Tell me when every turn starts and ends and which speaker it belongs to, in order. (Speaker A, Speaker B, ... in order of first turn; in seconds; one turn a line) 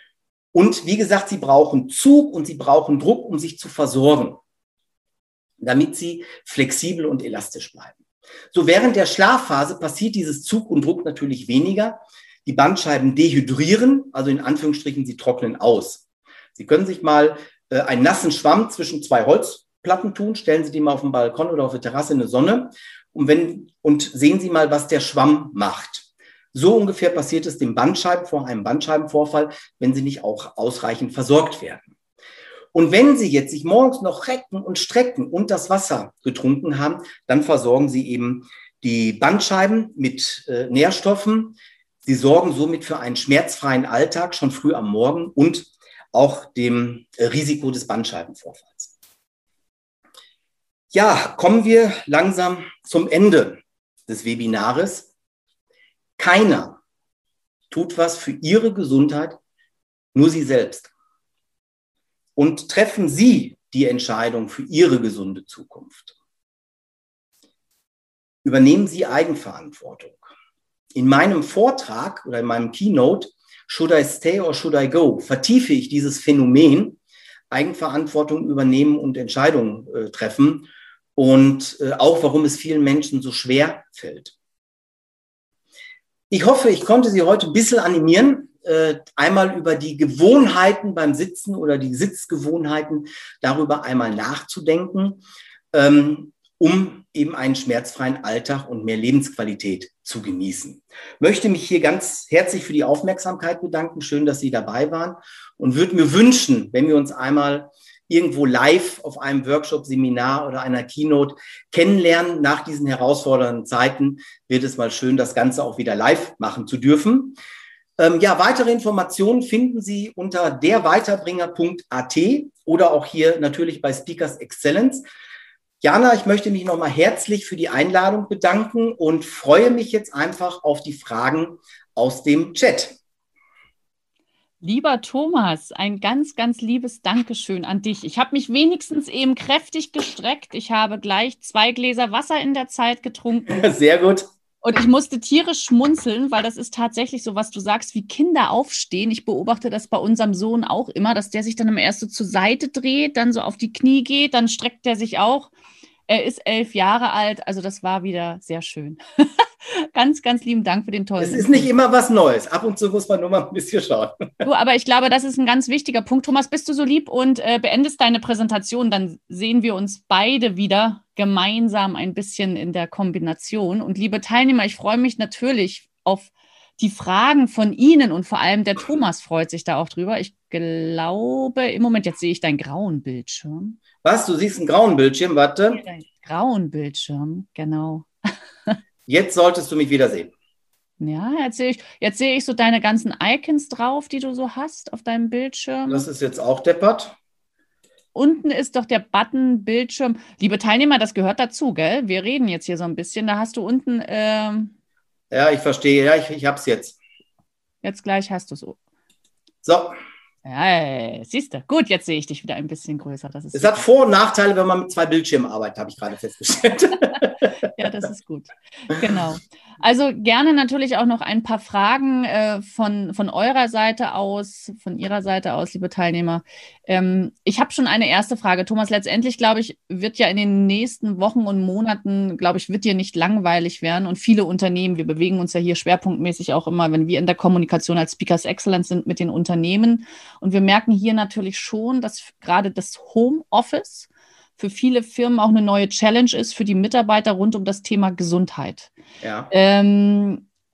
Speaker A: 0.5-4.4
Speaker A: 5.6-8.0
Speaker A: 8.5-16.0
Speaker A: 16.6-31.9
Speaker A: 32.7-48.9
Speaker A: 50.9-55.1
Speaker A: 56.2-56.8
Speaker A: 57.7-59.4
Speaker A: 60.1-60.9
Speaker A: 62.4-66.1
Speaker A: 68.4-70.2
Speaker A: 71.0-77.0
Speaker A: 77.5-84.3
Speaker A: 86.3-95.2
Speaker A: 95.7-117.4
Speaker A: 118.0-125.0
Speaker A: 125.8-133.0
Speaker B: 134.6-143.6
Speaker A: 143.5-144.3
Speaker B: 144.6-155.5
Speaker B: 156.1-161.7
Speaker A: 161.2-164.3
Speaker B: 164.4-183.8
Speaker A: 184.0-185.8
Speaker B: 185.7-188.1
Speaker A: 189.1-190.3
Speaker B: 191.0-196.1
Speaker A: 195.9-197.2
Speaker B: 198.2-204.7
Speaker A: 205.3-207.0
Speaker B: 207.8-208.8
Speaker A: 209.6-209.9
Speaker B: 210.4-213.8
Speaker A: 213.5-217.5
Speaker B: 217.8-248.9
Speaker A: 249.2-249.5
Speaker B: 249.5-250.4